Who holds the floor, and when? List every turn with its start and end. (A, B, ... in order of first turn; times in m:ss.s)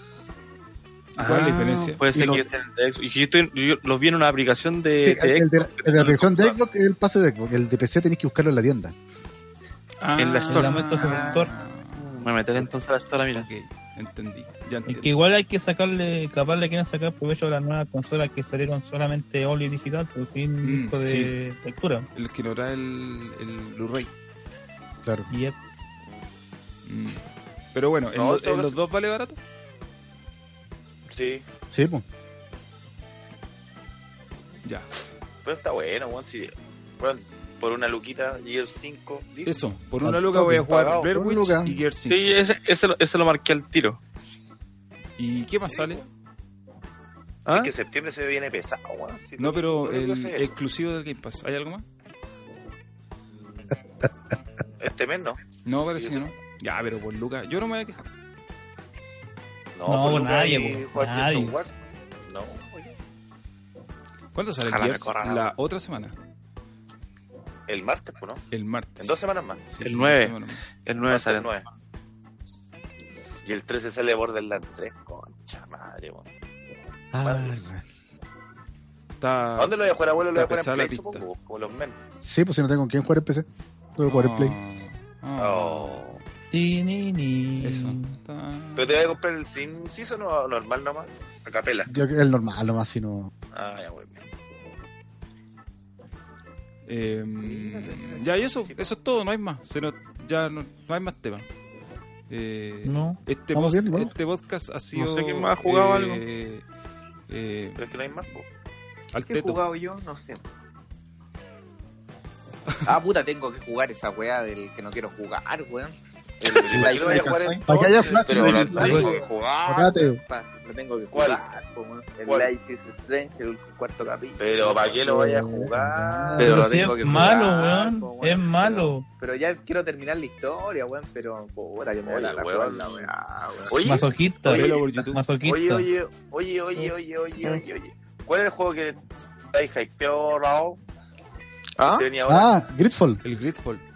0:01.2-0:02.0 A
0:01.2-0:06.6 B
0:02.1-0:02.4 C
0:05.0-0:08.9 C
0:10.0-0:12.7 A
0:10.2-0:13.5 B
0:10.5-0:11.5 D
0:13.3-0:15.1 A
0:14.9-0:22.0 D
0:20.6-0:21.3 A
0:22.1-0:24.1 A
0:25.3-0:25.6 D
0:26.8-0:27.2 A
0:27.7-0:29.4 A
0:28.1-0:28.8 E
0:31.1-0:31.4 E
0:31.7-0:32.0 C
0:34.6-0:34.9 A
0:35.4-0:39.6 E
0:39.4-0:42.4 A
0:40.0-0:41.8 C
0:40.6-0:41.1 E
0:42.1-0:44.0 B
0:45.2-0:46.0 A
0:45.7-0:46.1 E
0:47.4-0:47.7 B
0:47.5-0:50.5 E
0:49.4-0:51.8 A
0:53.3-0:53.8 E
0:54.8-0:55.4 E
0:55.6-0:58.1 A
0:56.0-0:56.3 E
0:59.7-1:01.8 E
0:59.8-1:01.6 D
1:02.3-1:03.0 E
1:04.3-1:06.1 A
1:04.7-1:05.5 B
1:07.7-1:08.4 E
1:08.5-1:10.6 A
1:09.0-1:09.6 E
1:09.8-1:11.5 B
1:11.0-1:11.6 E
1:13.4-1:16.3 E
1:17.1-1:17.8 C
1:17.2-1:17.7 E
1:19.2-1:21.2 A
1:19.6-1:22.0 E
1:22.2-1:23.4 C
1:24.0-1:24.6 C
1:24.0-1:26.0 A
1:25.4-1:26.2 E
1:26.5-1:28.1 D
1:27.6-1:29.2 A
1:28.8-1:31.9 E
1:31.9-1:33.3 C
1:33.5-1:34.2 E
1:36.8-1:41.4 A
1:37.4-1:38.9 E
1:42.3-1:46.6 A
1:42.8-1:43.2 D
1:43.5-1:44.1 C
1:44.9-1:46.2 B
1:47.3-1:48.0 A
1:47.8-1:48.4 E
1:49.1-1:49.6 A
1:49.2-1:50.4 F
1:52.8-1:57.5 F
1:56.4-2:00.0 E
1:56.7-1:57.6 B
1:57.6-2:00.2 C
1:58.3-1:59.0 B
1:58.7-1:59.1 D
1:59.0-1:59.2 F
2:00.0-2:05.3 F
2:01.1-2:01.4 E
2:04.4-2:06.6 E
2:05.1-2:06.7 C
2:06.4-2:13.8 F
2:06.4-2:09.0 D
2:12.0-2:13.1 E
2:13.7-2:19.0 E
2:13.8-2:15.9 D
2:14.4-2:15.2 A
2:19.5-2:20.8 E
2:21.8-2:22.1 F
2:21.8-2:22.6 E
2:22.3-2:23.2 C
2:23.2-2:23.8 A